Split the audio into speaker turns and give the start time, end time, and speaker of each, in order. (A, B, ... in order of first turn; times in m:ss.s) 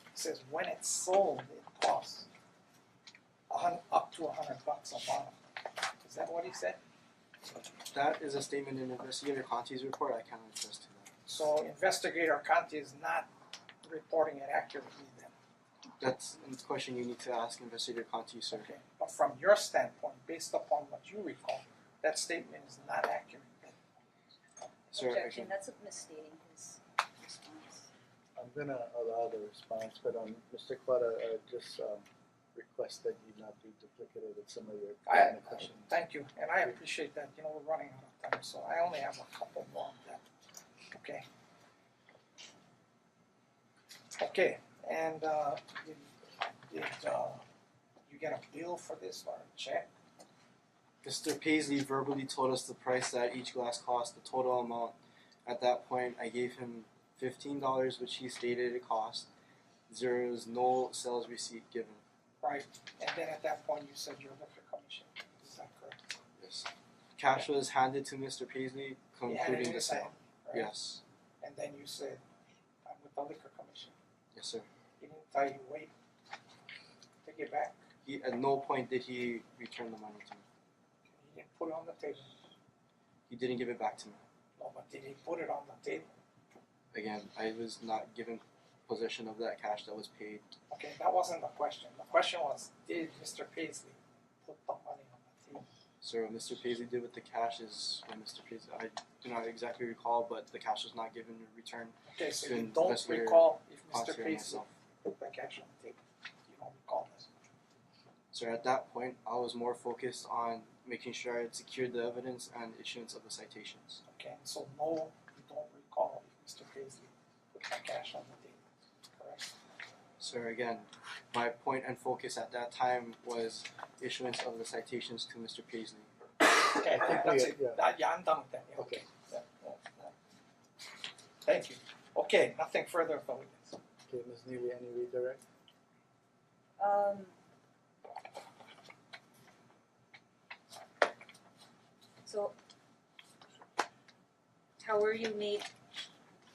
0:00.1-0:02.3 A
0:03.5-0:05.4 A
0:06.0-0:06.8 A
0:07.9-0:11.1 B
0:11.2-0:13.3 A
0:13.8-0:15.3 A
0:16.0-0:18.7 B
0:18.5-0:23.9 A
0:24.9-0:27.9 C
0:24.9-0:25.5 B
0:28.4-0:35.9 D
0:35.1-0:40.2 A
0:40.9-0:41.2 A
0:44.2-0:46.1 A
0:46.7-0:47.4 A
0:48.1-0:49.9 A
0:51.0-0:59.3 B
0:59.9-1:02.0 B
1:02.4-1:06.0 A
1:06.4-1:11.0 B
1:09.3-1:10.7 A
1:11.4-1:12.2 A
1:12.8-1:14.0 A
1:14.3-1:14.7 B
1:15.0-1:15.9 A
1:17.2-1:17.8 A
1:18.0-1:20.4 B
1:21.1-1:22.3 A
1:23.3-1:24.2 B
1:24.6-1:26.2 A
1:26.9-1:30.5 B
1:30.7-1:35.7 A
1:36.0-1:44.7 B
1:42.1-1:47.3 A
1:48.3-1:54.0 B
1:54.1-1:59.5 A
2:00.2-2:06.1 B
2:06.6-2:10.1 A
2:06.9-2:07.8 D
2:08.8-2:09.0 D
2:11.4-2:13.8 A
2:14.1-2:15.4 D
2:16.8-2:17.3 C
2:22.3-2:22.5 C
2:24.8-2:25.7 C